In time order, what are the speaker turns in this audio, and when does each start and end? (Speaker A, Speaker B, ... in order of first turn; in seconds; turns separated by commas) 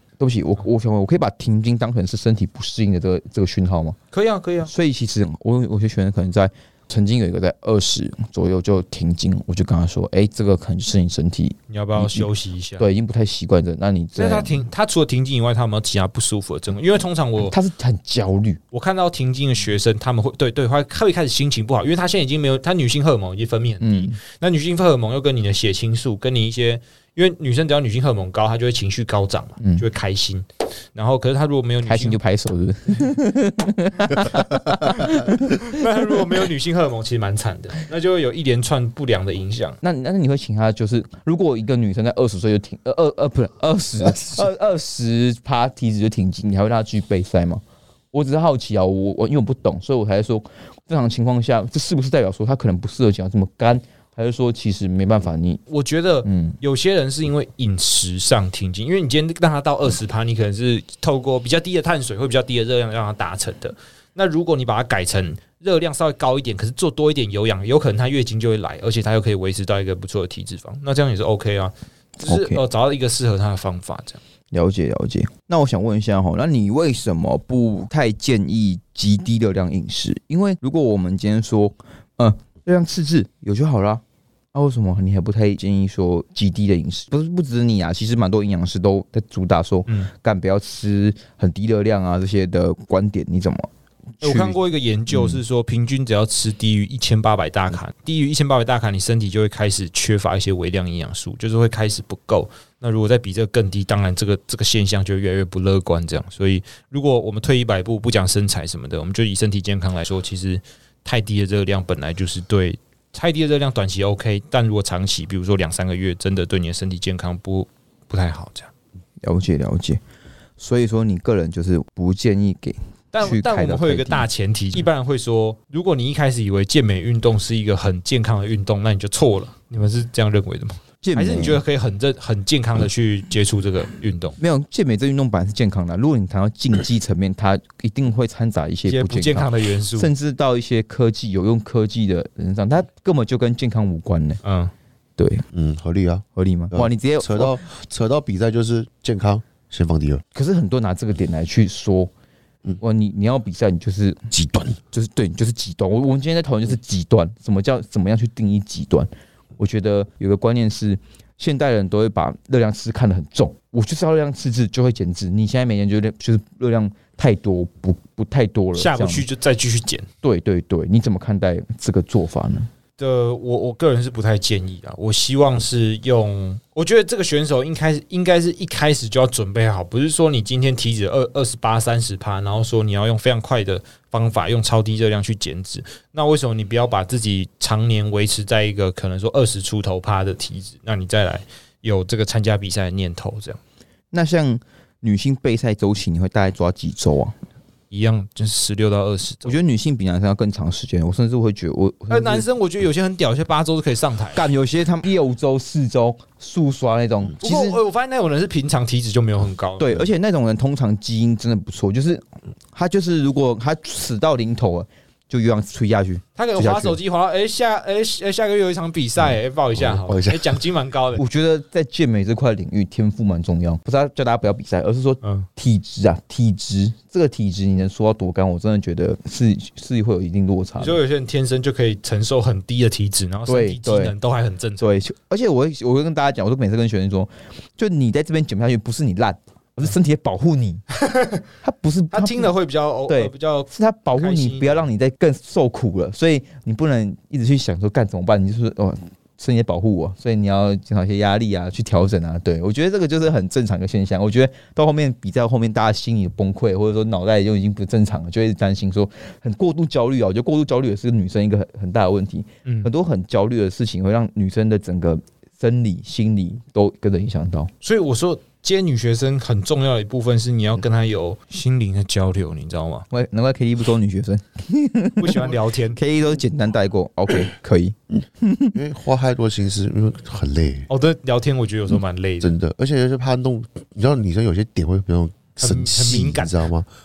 Speaker A: 0.2-4.0, Speaker B: 4.1-4.7, Speaker A: 4.7-14.5, Speaker B: 11.7-12.9, Speaker B: 14.2-17.6, Speaker A: 17.5-18.6, Speaker B: 18.7-32.2, Speaker A: 23.8-24.2, Speaker A: 31.9-36.1, Speaker B: 35.6-39.8, Speaker A: 39.8-47.6, Speaker A: 48.1-55.6, Speaker B: 55.7-74.2, Speaker A: 56.2-56.6, Speaker A: 72.2-72.6, Speaker A: 74.5-84.0, Speaker A: 84.5-95.4, Speaker B: 94.2-118.7, Speaker A: 119.2-120.0, Speaker A: 120.6-124.3, Speaker B: 123.1-134.4, Speaker A: 131.0-131.6, Speaker A: 134.4-144.4, Speaker B: 138.9-140.1, Speaker B: 144.4-144.7, Speaker A: 145.2-145.5, Speaker C: 145.5-150.2, Speaker A: 146.4-147.6, Speaker A: 150.3-152.1, Speaker A: 152.8-154.2, Speaker C: 154.3-154.8, Speaker A: 154.9-169.3, Speaker B: 168.8-170.1, Speaker A: 170.2-172.7, Speaker B: 173.0-193.6, Speaker A: 194.1-197.4, Speaker B: 197.9-199.6, Speaker A: 199.4-202.5, Speaker B: 202.1-204.5, Speaker A: 204.3-207.8, Speaker B: 207.4-210.1, Speaker A: 209.8-217.0, Speaker B: 216.4-221.2, Speaker C: 219.8-220.6, Speaker A: 221.2-231.0, Speaker B: 225.2-225.5, Speaker B: 230.8-235.0, Speaker A: 233.5-234.1, Speaker A: 234.8-240.8, Speaker B: 240.9-241.4, Speaker A: 241.6-242.6, Speaker B: 242.1-244.8, Speaker A: 243.1-267.7, Speaker B: 262.6-262.9, Speaker B: 267.8-273.1, Speaker A: 273.1-278.8, Speaker B: 275.2-276.0, Speaker C: 278.7-280.9, Speaker B: 280.9-282.5, Speaker C: 282.4-286.9, Speaker B: 285.6-286.6